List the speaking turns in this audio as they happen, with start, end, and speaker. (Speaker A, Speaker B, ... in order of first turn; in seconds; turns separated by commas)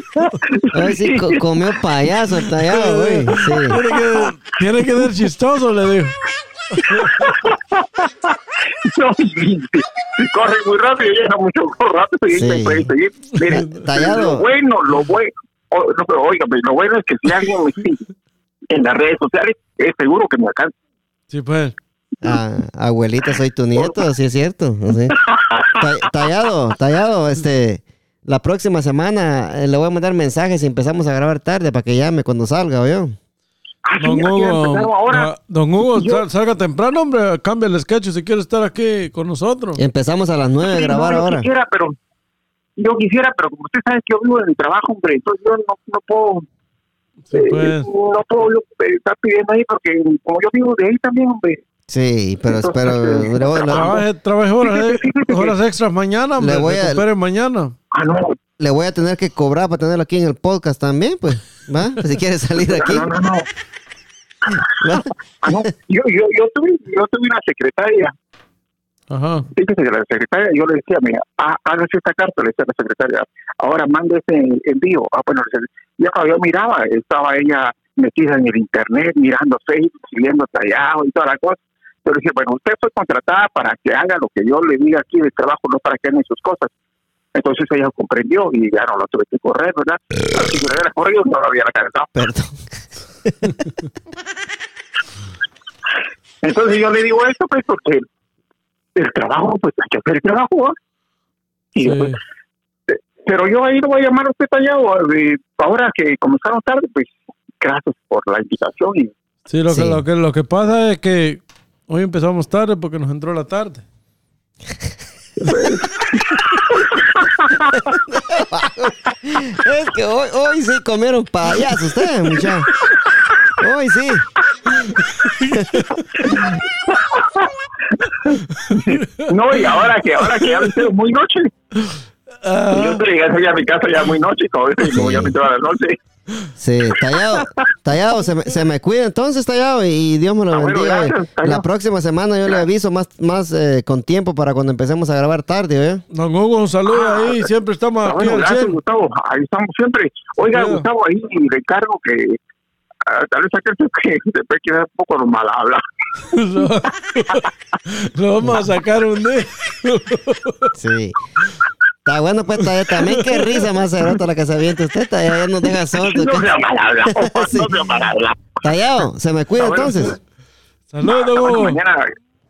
Speaker A: 0.1-1.4, Speaker B: 0.7-3.8, Speaker C: 2.6-6.2, Speaker A: 3.7-4.3, Speaker C: 6.8-7.3, Speaker A: 6.8-18.1, Speaker B: 12.3-12.9, Speaker B: 13.4-14.4, Speaker A: 18.7-20.7, Speaker C: 21.3-21.7, Speaker B: 22.2-25.2, Speaker A: 25.1-25.9, Speaker B: 25.7-33.1, Speaker A: 33.8-35.3, Speaker C: 34.0-39.8, Speaker A: 35.9-36.2, Speaker B: 39.8-41.5, Speaker A: 40.6-42.0, Speaker A: 42.8-46.5, Speaker C: 47.3-47.9, Speaker A: 47.3-51.6, Speaker B: 51.9-54.0, Speaker A: 52.5-54.0, Speaker C: 53.7-57.7, Speaker A: 54.6-55.5, Speaker B: 56.4-57.0, Speaker A: 57.9-58.4, Speaker B: 58.6-63.1, Speaker A: 62.7-63.5, Speaker A: 64.5-68.1, Speaker B: 64.8-65.7, Speaker C: 69.1-69.5, Speaker A: 69.5-86.7, Speaker A: 87.3-92.1, Speaker B: 92.2-92.6, Speaker B: 93.2-93.6, Speaker A: 96.4-98.0, Speaker A: 99.0-100.8, Speaker A: 101.7-102.1, Speaker C: 101.8-102.2, Speaker A: 102.9-109.1, Speaker C: 109.5-113.8, Speaker B: 109.7-110.0, Speaker B: 115.4-115.7, Speaker A: 115.5-117.9, Speaker C: 116.3-116.6, Speaker B: 117.7-122.7, Speaker B: 123.6-124.3, Speaker C: 124.8-126.4, Speaker A: 126.2-131.5, Speaker C: 128.5-130.9, Speaker C: 131.8-133.0, Speaker A: 132.7-136.0, Speaker B: 134.8-135.3, Speaker B: 136.6-146.0, Speaker A: 137.1-137.5, Speaker A: 140.5-141.6, Speaker C: 146.1-148.8, Speaker A: 146.9-147.5, Speaker A: 148.0-152.4, Speaker C: 150.4-150.9, Speaker A: 153.0-155.8, Speaker C: 156.3-160.7, Speaker B: 160.8-161.2, Speaker B: 162.1-166.5, Speaker C: 162.9-163.6, Speaker A: 166.0-168.6, Speaker B: 167.1-167.7, Speaker B: 168.6-170.2, Speaker A: 169.6-170.2, Speaker C: 170.9-171.8, Speaker A: 171.0-172.0